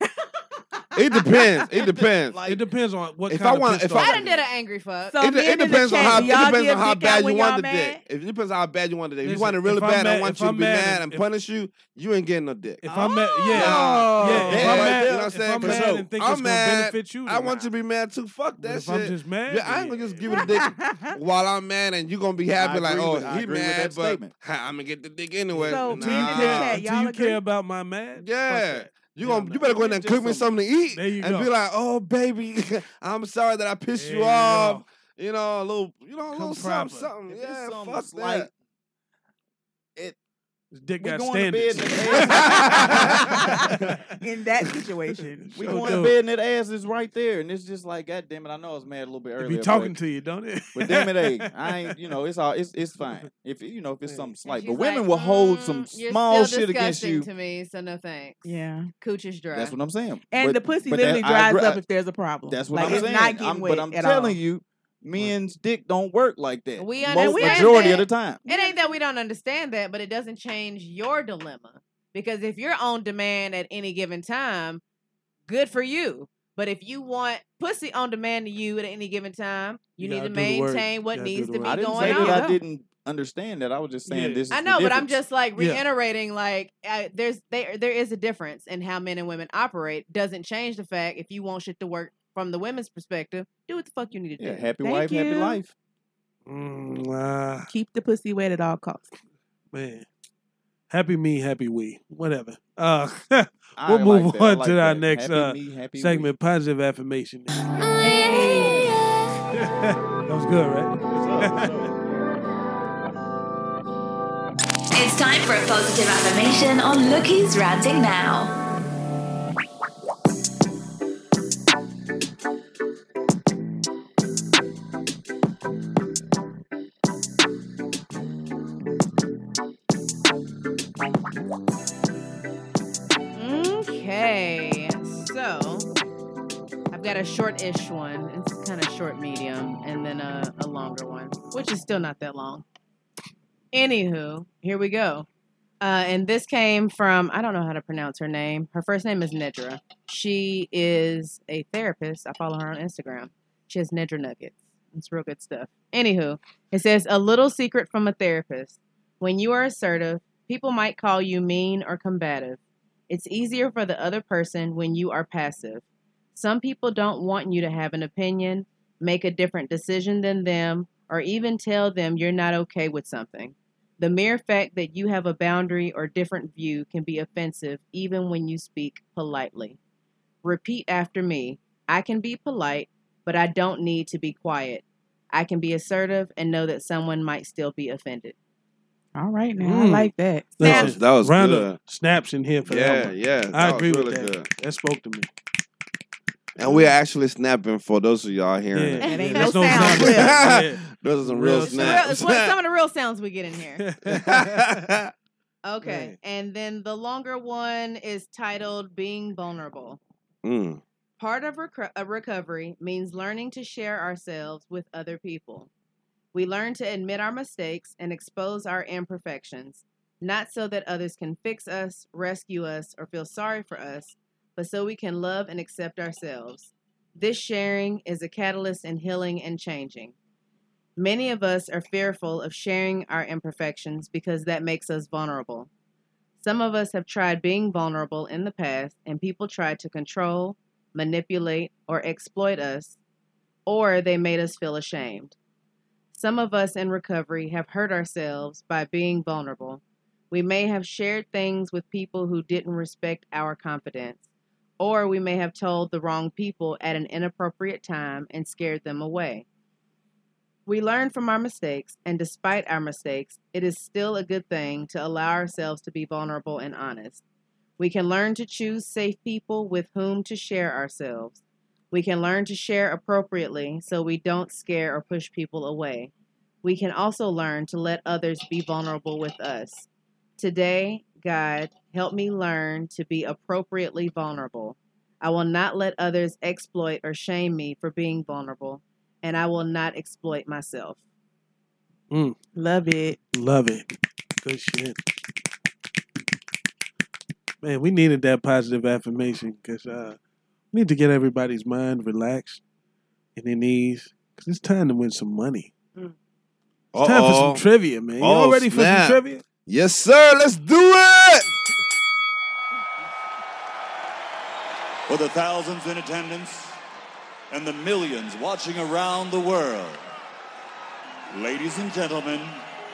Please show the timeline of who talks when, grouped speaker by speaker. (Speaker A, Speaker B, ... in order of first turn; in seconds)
Speaker A: 0.8-1.2, 5.1-8.0, 12.9-13.6, 20.2-21.1, 25.7-27.4, 44.2-45.7, 58.4-58.9, 60.3-64.4, 67.1-69.0, 82.1-82.6, 94.8-95.6, 97.7-99.1, 108.0-108.9, 189.1-190.7, 199.0-200.4, 292.6-293.2
Speaker B: 0.9-2.4, 3.3-4.2, 5.2-12.8, 13.5-26.8, 28.2-38.5, 42.2-43.1, 190.6-191.8, 192.6-194.5, 196.6-199.1, 199.8-202.5, 204.1-205.1, 210.4-210.8, 306.9-307.6, 308.2-311.4
Speaker C: 1.7-2.6, 13.5-16.1, 22.6-24.3, 29.7-30.4, 37.3-38.5, 41.0-44.0, 45.6-50.0, 50.7-57.3, 59.5-61.8, 62.5-68.4, 81.6-85.2, 94.4-95.7, 103.8-106.3, 111.1-112.0
Speaker D: 2.5-4.4, 9.2-11.2, 12.8-17.7, 18.6-20.6, 25.5-29.7, 30.9-31.5, 33.9-34.8, 36.3-37.1, 40.7-44.0, 45.5-46.1, 49.4-52.2, 80.0-82.4, 84.1-84.4, 85.6-85.8, 96.5-97.7, 99.7-100.0, 100.9-107.5, 109.5-111.9, 189.6-195.3, 198.7-202.1, 203.8-204.8, 205.8-206.2, 292.1-292.4, 293.3-293.9, 294.4-295.0, 297.6-300.2, 300.7-302.6, 303.4-305.7, 307.0-309.4
Speaker E: 4.0-5.2, 54.4-58.4, 59.0-59.7, 66.8-74.8, 75.5-82.5, 84.5-94.7, 108.1-108.8, 133.3-135.9, 136.9-142.6, 143.7-145.3, 145.8-179.8, 180.4-188.3, 199.0-199.5, 201.7-203.8, 205.6-210.0, 211.2-215.7, 216.3-230.1, 231.0-235.7, 236.4-243.0, 243.7-245.3, 246.1-254.2, 254.8-259.4, 260.6-267.2, 267.8-271.4, 271.9-276.1, 276.6-279.9, 280.4-291.0
Speaker F: 114.9-118.5
Speaker G: 315.1-316.8, 317.5-320.0, 321.3-322.6